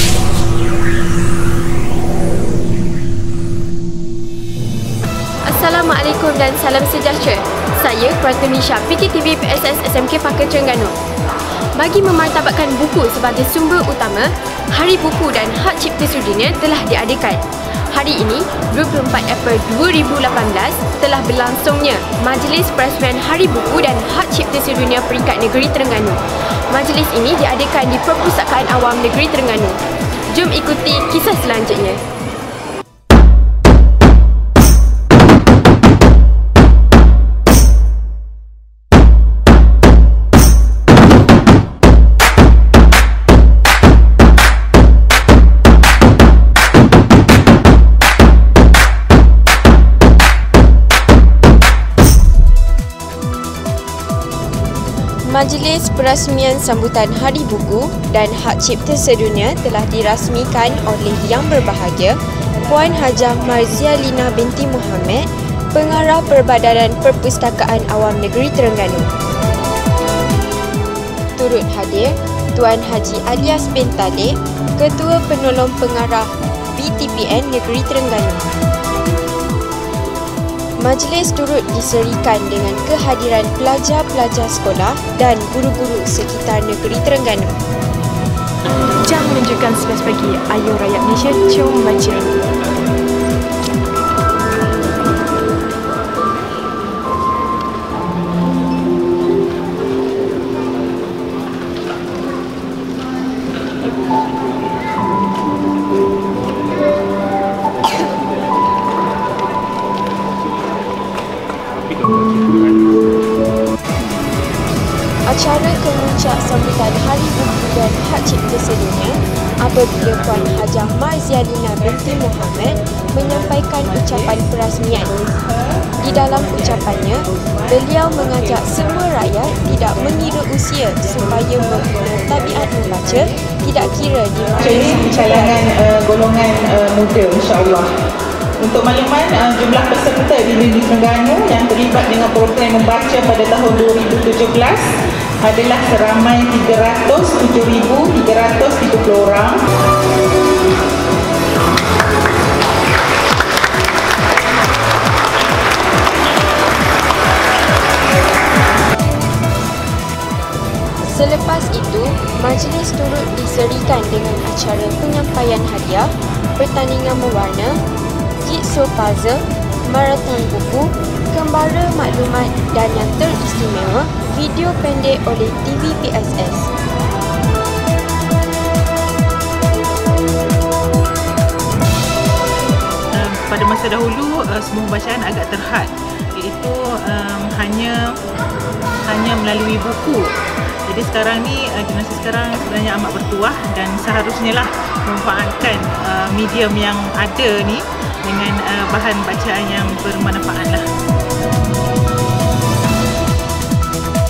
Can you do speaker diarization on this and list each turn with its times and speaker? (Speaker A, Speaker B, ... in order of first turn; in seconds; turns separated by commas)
Speaker A: 5.4-11.0, Speaker A: 11.7-32.0, Speaker A: 55.2-69.1, Speaker A: 71.4-78.4, Speaker A: 80.8-87.6, Speaker B: 89.1-92.2, Speaker A: 115.2-125.2, Speaker C: 125.2-125.8, Speaker A: 125.9-135.7, Speaker C: 134.6-137.9, Speaker C: 138.6-149.7, Speaker A: 161.0-167.8, Speaker A: 168.4-176.7, Speaker C: 183.1-188.2, Speaker C: 189.1-190.3, Speaker C: 190.9-200.9